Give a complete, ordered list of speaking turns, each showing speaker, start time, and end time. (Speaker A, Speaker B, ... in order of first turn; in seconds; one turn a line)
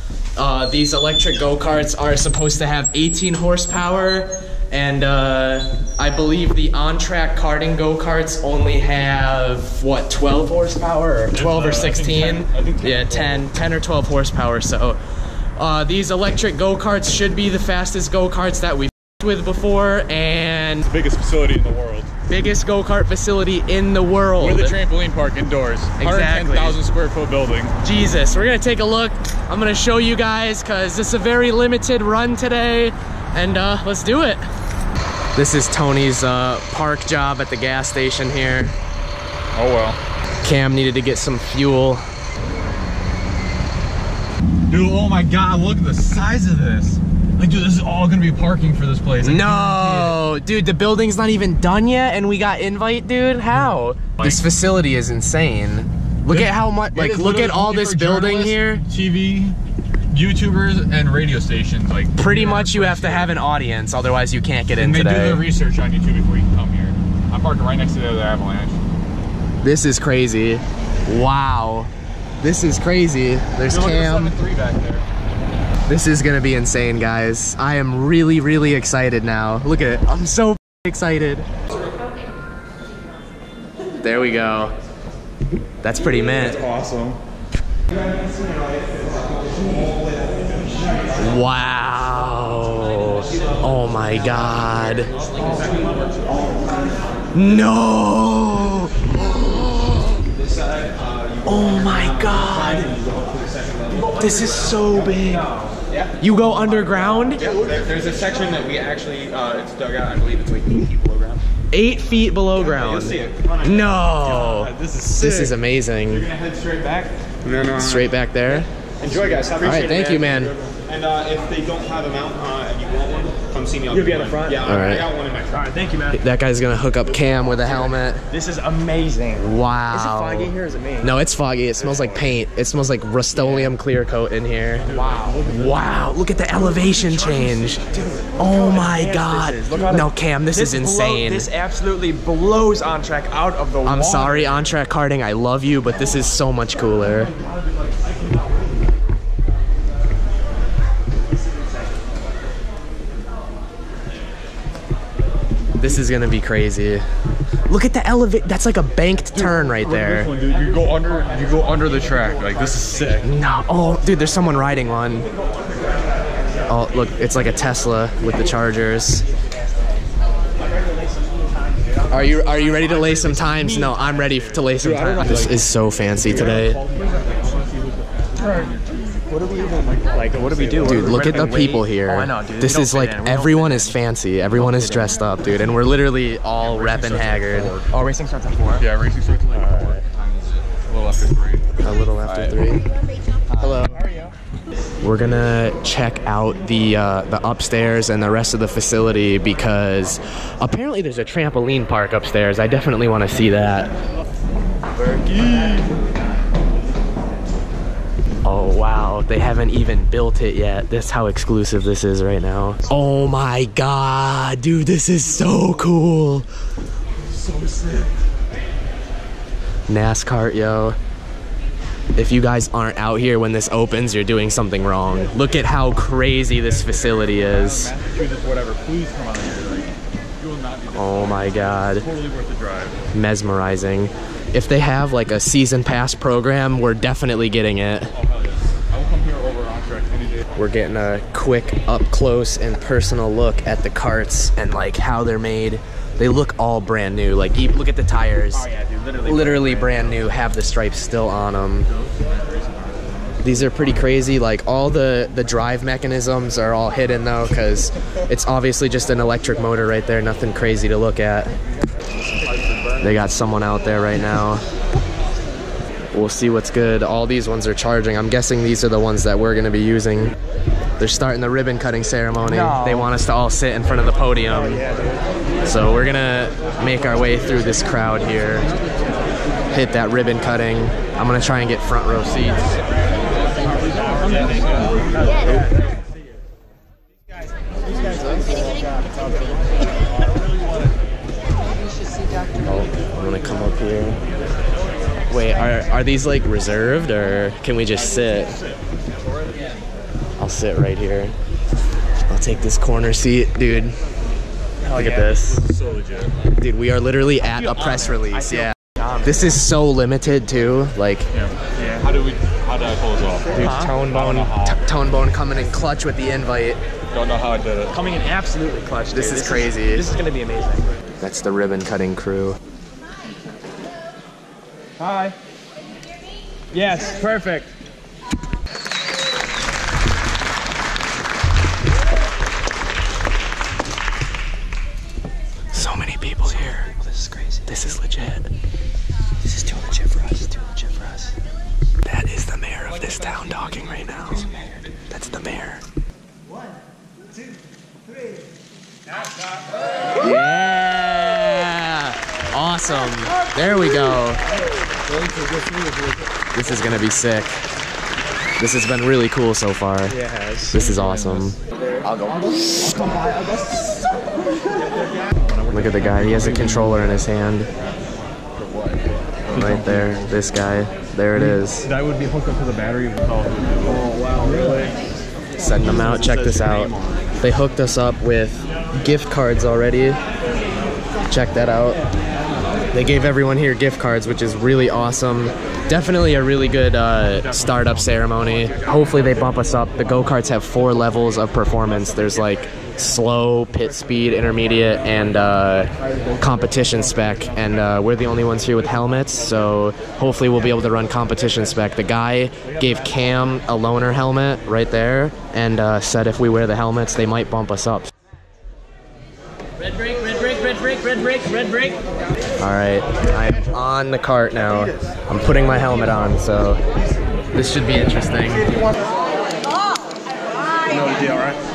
Speaker A: 0.3-15.0
Speaker B: 11.3-13.4
Speaker A: 15.6-20.9
Speaker B: 20.9-22.1
Speaker A: 22.3-24.8
Speaker B: 24.4-27.7
Speaker A: 26.0-26.8
Speaker A: 27.8-34.4
Speaker A: 35.3-38.8
Speaker B: 39.5-40.0
Speaker A: 40.4-42.0
Speaker B: 44.7-50.1
Speaker A: 49.2-58.8
Speaker B: 56.3-59.6
Speaker B: 60.1-63.3
Speaker A: 62.1-65.5
Speaker B: 64.8-68.8
Speaker A: 69.6-74.3
Speaker B: 73.7-75.0
Speaker A: 75.9-81.5
Speaker A: 84.0-84.7
Speaker A: 85.8-86.6
Speaker C: 86.7-87.2
Speaker A: 91.2-95.1
Speaker C: 95.5-95.8
Speaker A: 97.3-100.2
Speaker A: 101.4-102.9
Speaker A: 104.1-105.5
Speaker A: 106.2-107.5
Speaker D: 107.4-111.4
Speaker A: 111.7-116.3
Speaker D: 112.5-113.8
Speaker C: 114.3-115.5
Speaker D: 116.3-118.1
Speaker A: 117.7-118.7
Speaker D: 119.0-125.6
Speaker C: 119.1-120.0
Speaker A: 119.6-120.5
Speaker C: 123.9-124.6
Speaker A: 124.6-125.1
Speaker C: 125.5-126.2
Speaker A: 126.1-128.2
Speaker C: 128.3-131.1
Speaker A: 129.4-134.8
Speaker C: 133.4-133.7
Speaker C: 134.9-135.4
Speaker A: 135.4-137.8
Speaker C: 137.3-144.6
Speaker A: 138.4-141.5
Speaker A: 143.8-147.3
Speaker A: 155.8-157.0
Speaker A: 157.7-160.3
Speaker B: 159.8-163.3
Speaker A: 163.2-165.3
Speaker A: 166.7-169.2
Speaker A: 172.1-176.8
Speaker C: 172.8-174.0
Speaker C: 174.9-175.6
Speaker B: 176.4-178.0
Speaker C: 179.3-183.9
Speaker B: 179.8-180.9
Speaker E: 180.3-180.6
Speaker A: 180.8-187.7
Speaker D: 181.1-181.4
Speaker E: 182.2-183.6
Speaker C: 184.6-185.1
Speaker B: 186.6-187.9
Speaker C: 188.0-188.8
Speaker E: 188.2-188.8
Speaker B: 188.8-191.7
Speaker A: 191.8-192.8
Speaker B: 192.3-192.5
Speaker A: 193.6-193.9
Speaker A: 195.0-203.9
Speaker C: 205.1-205.8
Speaker A: 208.4-216.5
Speaker C: 217.5-217.9
Speaker A: 219.9-221.0
Speaker A: 222.2-227.9
Speaker B: 226.7-233.0
Speaker A: 230.9-232.1
Speaker A: 233.1-238.1
Speaker B: 238.3-240.4
Speaker A: 240.6-248.7
Speaker C: 248.5-250.1
Speaker A: 249.2-251.9
Speaker B: 252.0-252.9
Speaker A: 253.4-261.5
Speaker A: 263.0-264.6
Speaker A: 266.1-270.3
Speaker A: 271.0-274.8
Speaker E: 272.5-273.0
Speaker A: 275.6-278.7
Speaker A: 279.7-282.8
Speaker C: 284.0-284.9
Speaker B: 284.4-284.9
Speaker A: 292.6-294.2
Speaker A: 295.3-298.5
Speaker A: 300.4-301.3
Speaker A: 302.3-303.9
Speaker C: 304.9-305.4
Speaker A: 304.9-305.6
Speaker B: 305.7-306.3
Speaker A: 306.6-311.3
Speaker C: 307.7-309.4
Speaker B: 311.3-314.7
Speaker A: 313.5-316.8
Speaker C: 313.6-314.0
Speaker B: 317.1-317.9
Speaker C: 317.9-320.8
Speaker E: 318.6-318.9
Speaker A: 319.1-320.1
Speaker A: 321.2-322.6
Speaker C: 325.0-325.4
Speaker C: 326.7-327.7
Speaker A: 335.7-336.9
Speaker C: 337.1-337.6
Speaker A: 337.7-338.5
Speaker C: 339.6-341.3
Speaker A: 342.0-344.5
Speaker A: 345.1-345.8
Speaker A: 350.2-354.4
Speaker A: 356.5-357.6
Speaker A: 358.6-360.2
Speaker C: 360.1-361.5
Speaker A: 360.7-361.6
Speaker C: 362.1-363.8
Speaker A: 365.7-367.7
Speaker A: 369.5-371.9
Speaker B: 371.9-374.1
Speaker C: 374.5-374.8
Speaker A: 375.6-380.2
Speaker A: 381.3-382.0
Speaker A: 382.9-408.1
Speaker E: 410.6-411.9
Speaker A: 412.6-416.8
Speaker A: 417.5-418.7
Speaker C: 420.9-421.6